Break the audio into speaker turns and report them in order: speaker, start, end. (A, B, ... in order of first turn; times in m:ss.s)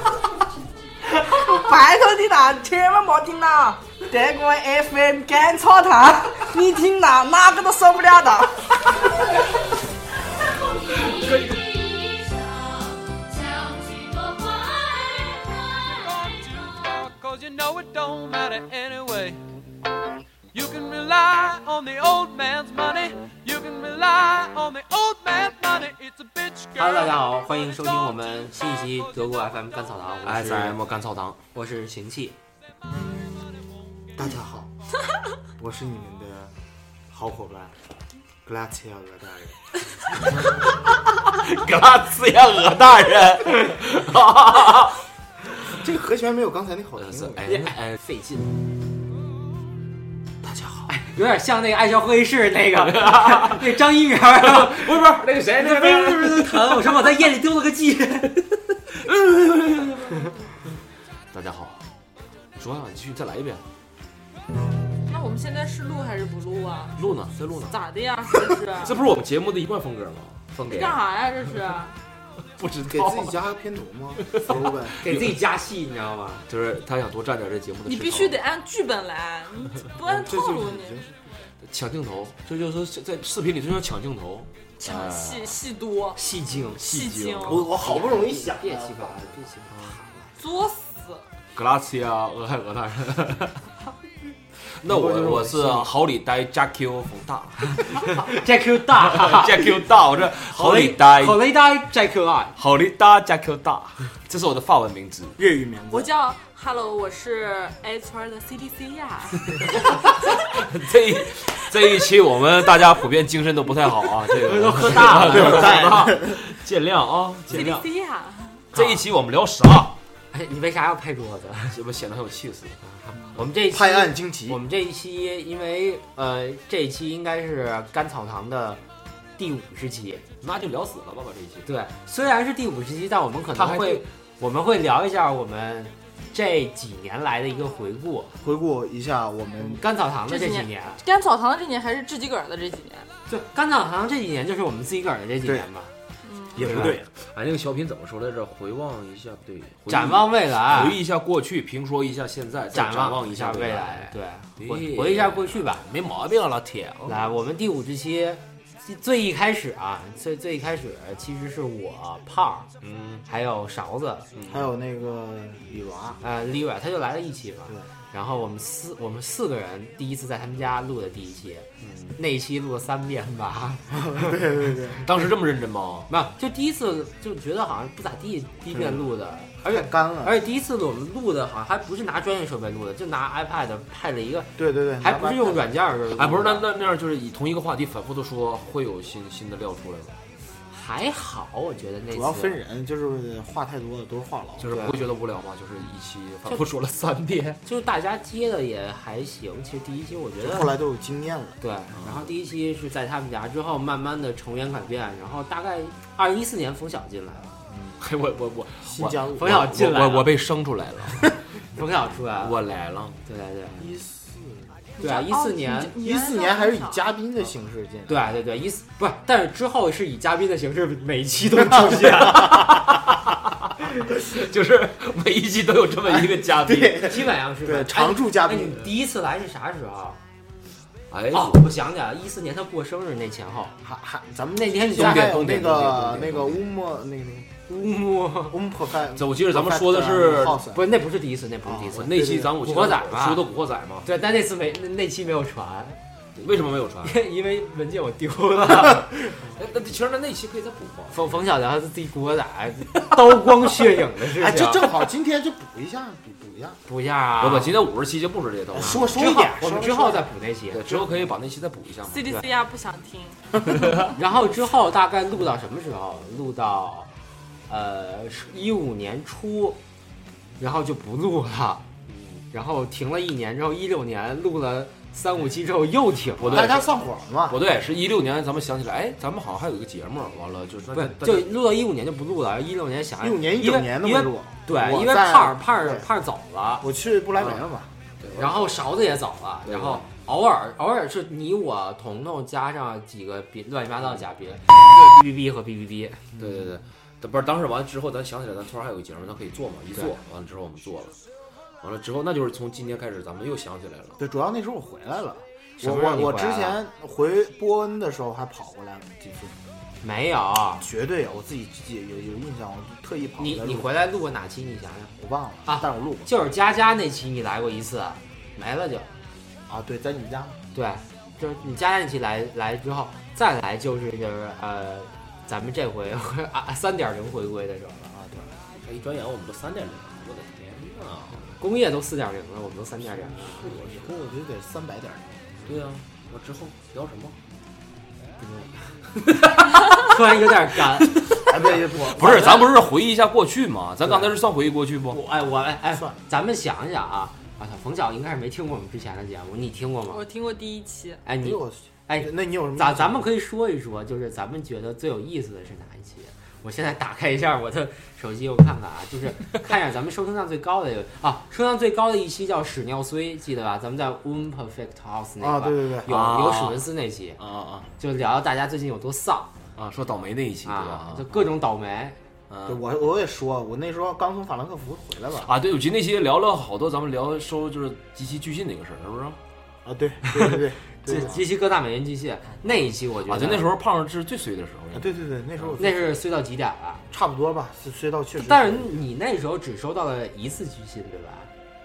0:01.0-0:09.0 A
0:11.0-0:11.6 B
0:12.1-0:12.6 C
0:13.3-0:19.4 C
0:20.5-0:29.7 C
0:26.8-0:30.8 D
0:30.2-0:31.4 B
0:31.5-0:32.4 D
0:34.1-0:34.7 E
0:35.6-0:36.5 E
0:37.1-0:37.8 E
0:38.4-0:39.6 E
0:41.2-0:45.0 B
0:45.6-0:47.5 E
0:47.0-0:48.0 B
0:47.4-0:48.5 D
0:50.4-0:50.9 B
0:50.9-0:55.0 D
0:52.8-0:53.6 B
0:54.3-0:56.8 B
0:55.6-0:58.5 D
0:58.9-1:00.3 B
1:01.3-1:01.8 B
1:02.6-1:03.6 B
1:05.0-1:07.1 F
1:07.0-1:07.8 B
1:07.7-1:09.0 F
1:08.7-1:11.0 B
1:10.7-1:12.0 F
1:12.6-1:13.4 B
1:12.8-1:15.0 E
1:14.3-1:15.4 B
1:15.0-1:16.4 D
1:16.5-1:18.4 B
1:17.8-1:21.0 F
1:20.0-1:21.1 E
1:21.6-1:25.6 B
1:24.8-1:26.2 F
1:26.2-1:26.8 D
1:26.6-1:27.7 B
1:26.8-1:27.7 F
1:27.4-1:29.5 E
1:27.6-1:30.3 D
1:29.7-1:30.0 B
1:30.4-1:31.2 F
1:31.5-1:33.6 B
1:34.8-1:38.3 B
1:34.9-1:35.9 E
1:38.0-1:39.7 D
1:39.0-1:41.4 B
1:40.5-1:42.5 D
1:42.6-1:45.4 B
1:45.4-1:46.1 E
1:45.9-1:50.0 F
1:49.7-1:57.8 B
1:54.4-1:55.9 D
1:54.9-1:56.4 E
1:57.5-1:58.6 F
1:58.7-2:00.0 B
1:58.7-1:59.0 D
2:00.3-2:01.8 D
2:01.7-2:02.8 B
2:02.8-2:08.8 D
2:03.6-2:04.6 E
2:09.4-2:10.2 D
2:10.4-2:11.7 B
2:11.6-2:18.3 D
2:13.5-2:14.0 B
2:18.4-2:19.8 E
2:19.6-2:21.0 D
2:20.3-2:23.1 F
2:23.3-2:25.9 D
2:26.2-2:26.6 F
2:26.6-2:27.0 E
2:26.6-2:37.3 B
2:26.6-2:26.9 D
2:29.9-2:31.0 D
2:32.7-2:35.8 D
2:37.0-2:42.7 D
2:42.8-2:43.2 B
2:43.3-2:44.3 D
2:44.3-2:44.7 B
2:44.5-2:46.2 E
2:46.2-2:54.4 D
2:51.8-2:52.2 B
2:53.9-2:55.0 E
2:55.0-2:56.1 B
2:56.1-3:06.6 D
2:58.7-2:59.0 E
2:59.6-3:00.4 E
3:04.6-3:05.7 E
3:06.2-3:10.2 B
3:10.7-3:12.6 D
3:12.1-3:14.7 E
3:14.6-3:17.6 B
3:14.7-3:15.0 D
3:17.6-3:20.7 D
3:20.4-3:21.6 E
3:21.6-3:27.5 D
3:21.9-3:22.3 B
3:27.7-3:31.3 B
3:28.8-3:29.6 E
3:29.3-3:30.3 D
3:31.7-3:32.6 D
3:32.3-3:33.9 B
3:33.2-3:33.7 D
3:33.8-3:34.7 E
3:35.0-3:37.1 F
3:35.0-3:35.9 D
3:36.0-3:38.3 E
3:38.1-3:42.7 D
3:41.9-3:43.3 B
3:44.0-3:47.2 B
3:46.6-3:48.9 E
3:46.9-3:50.2 D
3:51.1-3:51.6 B
3:51.3-3:53.8 D
3:53.8-3:57.6 E
3:54.5-3:55.5 D
3:54.9-3:56.6 B
3:57.7-3:58.6 D
3:58.5-4:00.8 E
3:59.1-4:00.6 B
4:00.7-4:03.4 D
4:01.6-4:02.6 E
4:01.9-4:04.1 B
4:04.0-4:06.0 D
4:06.4-4:07.2 B
4:07.0-4:09.4 D
4:09.4-4:11.4 B
4:11.1-4:14.9 D
4:14.4-4:16.8 E
4:16.9-4:17.7 D
4:17.4-4:19.2 B
4:18.7-4:20.3 E
4:18.8-4:20.9 D
4:20.7-4:22.3 B
4:22.0-4:23.5 F
4:24.0-4:27.1 D
4:27.7-4:29.8 D
4:30.6-4:31.8 D
4:32.1-4:32.4 B
4:32.5-4:36.7 D
4:36.4-4:36.9 B
4:36.4-4:37.6 E
4:37.4-4:41.5 B
4:40.9-4:46.8 D
4:43.2-4:46.0 E
4:46.8-4:47.9 E
4:47.4-4:47.6 B
4:48.2-4:48.8 B
4:48.4-4:56.2 D
4:49.7-4:50.0 B
4:56.3-4:56.6 E
4:56.4-5:01.1 B
5:01.8-5:04.2 B
5:04.2-5:09.5 E
5:05.8-5:06.8 D
5:10.0-5:10.8 D
5:10.8-5:13.9 E
5:13.4-5:15.1 D
5:15.2-5:16.3 E
5:15.7-5:19.1 D
5:19.7-5:20.6 E
5:20.7-5:28.1 D
5:28.1-5:28.5 E
5:28.8-5:31.5 B
5:31.6-5:33.9 D
5:33.5-5:35.6 E
5:33.5-5:34.1 B
5:35.6-5:37.4 B
5:39.2-5:40.2 B
5:39.9-5:41.1 D
5:41.0-5:45.2 B
5:41.4-5:42.7 E
5:42.1-5:42.6 D
5:45.1-5:50.2 D
5:45.9-5:46.2 E
5:50.1-5:51.2 F
5:51.2-6:07.4 D
5:51.4-5:53.3 E
6:05.4-6:06.2 E
6:06.1-6:07.9 B
6:08.0-6:09.5 D
6:09.7-6:11.4 B
6:10.6-6:12.2 D
6:12.5-6:12.8 B
6:12.6-6:15.5 E
6:15.4-6:19.4 B
6:19.8-6:21.4 E
6:20.5-6:23.7 D
6:23.2-6:25.2 B
6:24.9-6:26.2 E
6:25.8-6:27.0 D
6:27.1-6:29.0 E
6:28.4-6:31.5 D